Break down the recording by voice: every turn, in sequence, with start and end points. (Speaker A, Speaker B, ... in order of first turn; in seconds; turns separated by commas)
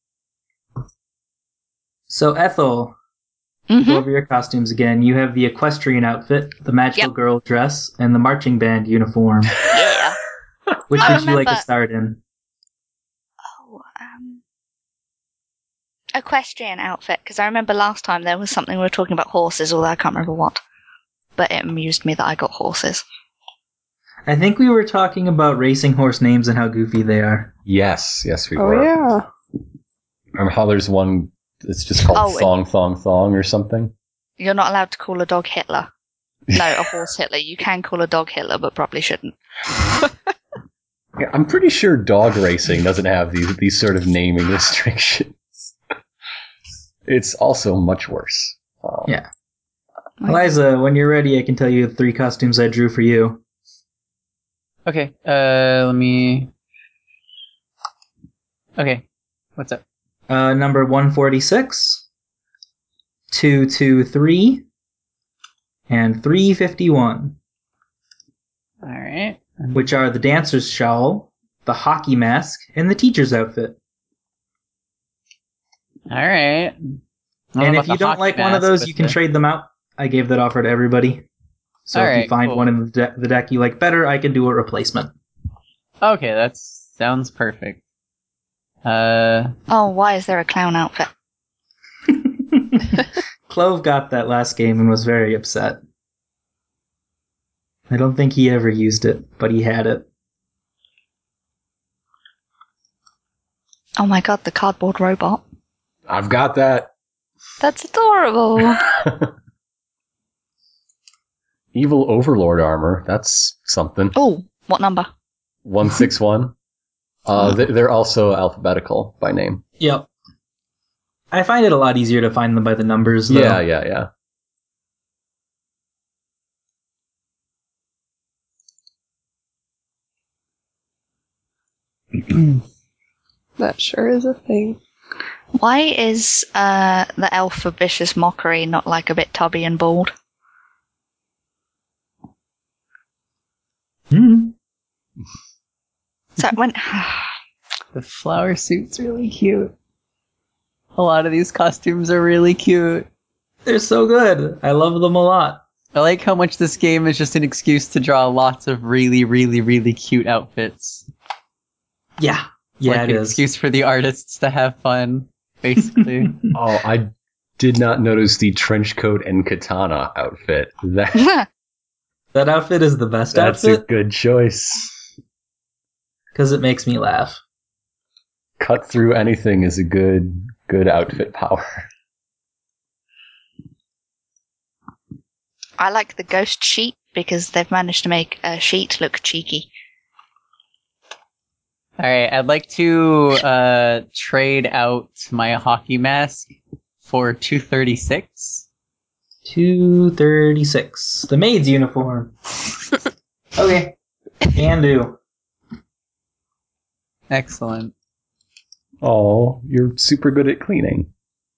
Speaker A: 2.1-2.9, Speaker B: 3.7-4.0, Speaker A: 3.8-9.6, Speaker B: 9.7-10.2, Speaker A: 10.9-12.2, Speaker B: 11.0-11.6, Speaker B: 13.5-14.4, Speaker B: 16.1-20.6, Speaker B: 21.4-23.0, Speaker A: 24.3-27.5, Speaker C: 27.7-28.9, Speaker D: 28.6-29.2, Speaker C: 30.4-33.9, Speaker B: 32.1-32.5, Speaker B: 34.4-35.9, Speaker C: 36.5-36.9, Speaker B: 36.5-39.4, Speaker C: 41.2-45.7, Speaker C: 47.1-49.1, Speaker B: 50.2-50.5, Speaker A: 50.2-53.4, Speaker E: 54.9-56.5, Speaker E: 58.8-59.0, Speaker E: 59.6-59.8, Speaker A: 60.3-62.0, Speaker A: 63.3-64.6, Speaker A: 65.9-67.4, Speaker E: 68.8-69.8, Speaker A: 69.7-73.8, Speaker E: 76.1-77.0, Speaker E: 77.5-79.2, Speaker A: 77.6-81.3, Speaker A: 81.9-85.1, Speaker E: 81.9-82.7, Speaker E: 86.0-87.8, Speaker E: 88.8-89.5, Speaker B: 89.7-91.1, Speaker A: 92.2-95.8, Speaker A: 97.9-100.1, Speaker B: 104.0-105.4, Speaker C: 106.1-106.9, Speaker B: 107.6-108.9, Speaker C: 108.7-109.3, Speaker C: 111.7-114.2, Speaker B: 114.1-115.1, Speaker C: 115.6-116.5, Speaker C: 117.2-119.6, Speaker A: 119.8-120.1, Speaker A: 121.3-123.6, Speaker C: 123.3-124.1, Speaker D: 133.6-134.8, Speaker B: 135.6-140.1, Speaker A: 144.1-144.5, Speaker B: 146.4-147.3, Speaker E: 147.9-149.7, Speaker E: 150.9-153.1, Speaker A: 153.7-155.6, Speaker E: 155.9-161.1, Speaker A: 162.2-163.4, Speaker E: 162.8-166.4, Speaker C: 166.5-171.3, Speaker B: 171.2-171.5, Speaker A: 172.3-173.8, Speaker C: 173.3-174.9, Speaker A: 176.3-177.4, Speaker C: 178.6-181.9, Speaker B: 185.8-189.7, Speaker E: 192.0-196.5, Speaker E: 197.0-198.6, Speaker A: 199.5-202.3, Speaker A: 203.6-205.2, Speaker E: 207.3-207.9, Speaker C: 209.0-211.1